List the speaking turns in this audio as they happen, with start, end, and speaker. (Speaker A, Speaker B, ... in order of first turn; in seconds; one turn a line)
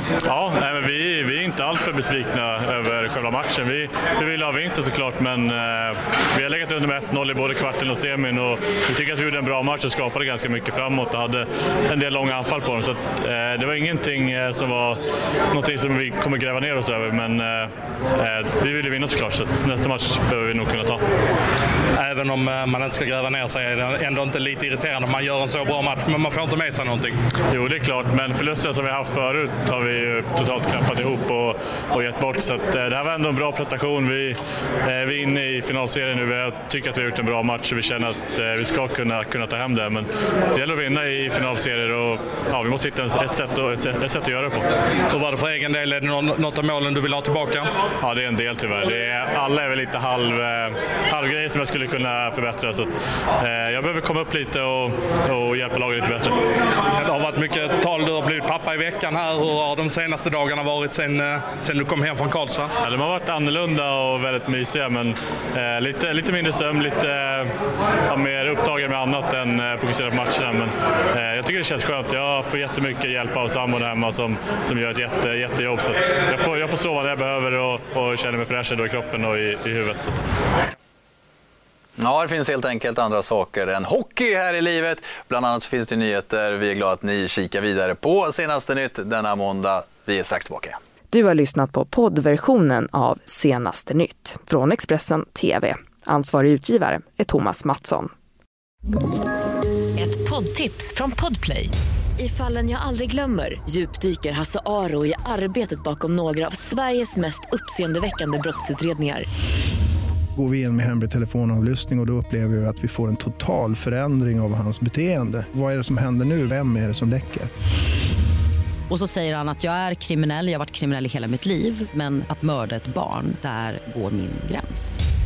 Speaker A: 0.3-15.0
Speaker A: 15.5-21.0
Speaker B: 21.9-27.2
Speaker A: 27.5-44.7
Speaker B: 45.1-47.7
Speaker A: 48.0-56.4
Speaker B: 56.9-62.7
Speaker A: 62.8-67.5
Speaker A: 68.1-80.2
Speaker C: 82.0-90.8
Speaker D: 91.1-98.1
Speaker E: 100.0-109.2
Speaker F: 110.3-117.5
Speaker G: 118.9-125.0